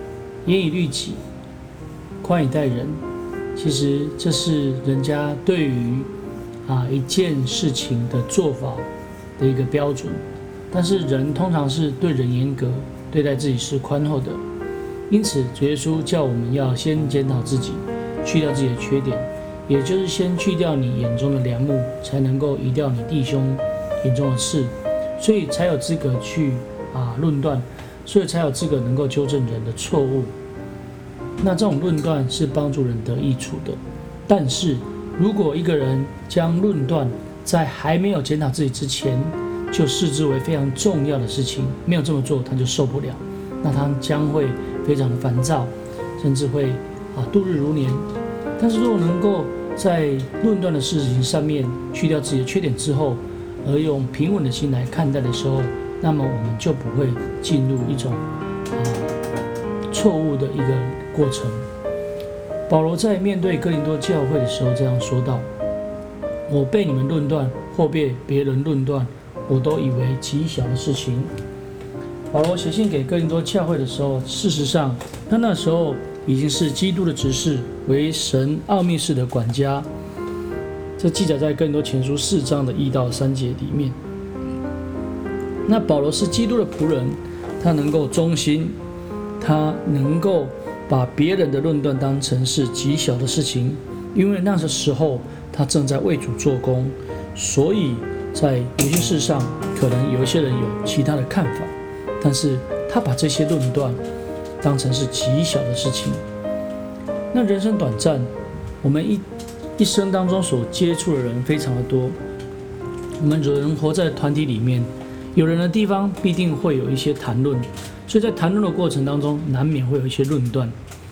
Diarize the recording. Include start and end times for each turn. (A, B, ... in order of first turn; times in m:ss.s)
0:00.4-0:01.2 A
0:02.2-0:03.0 A
0:03.5-0:06.1 A
0:06.6-0:08.9 A
0:09.4-0:14.4 A
0:15.1-0:30.3 A
0:31.4-0:48.0 A
0:48.6-0:59.1 A
0:59.9-1:01.6 A
1:02.7-1:05.5 A
1:06.5-1:11.3 A
1:12.3-1:19.9 A
1:21.0-1:24.0 A
1:25.6-1:28.8 A
1:29.4-1:44.0 A
1:44.6-1:46.2 A
1:47.3-1:49.2 A
1:49.8-1:52.2 A
1:53.2-2:00.7 A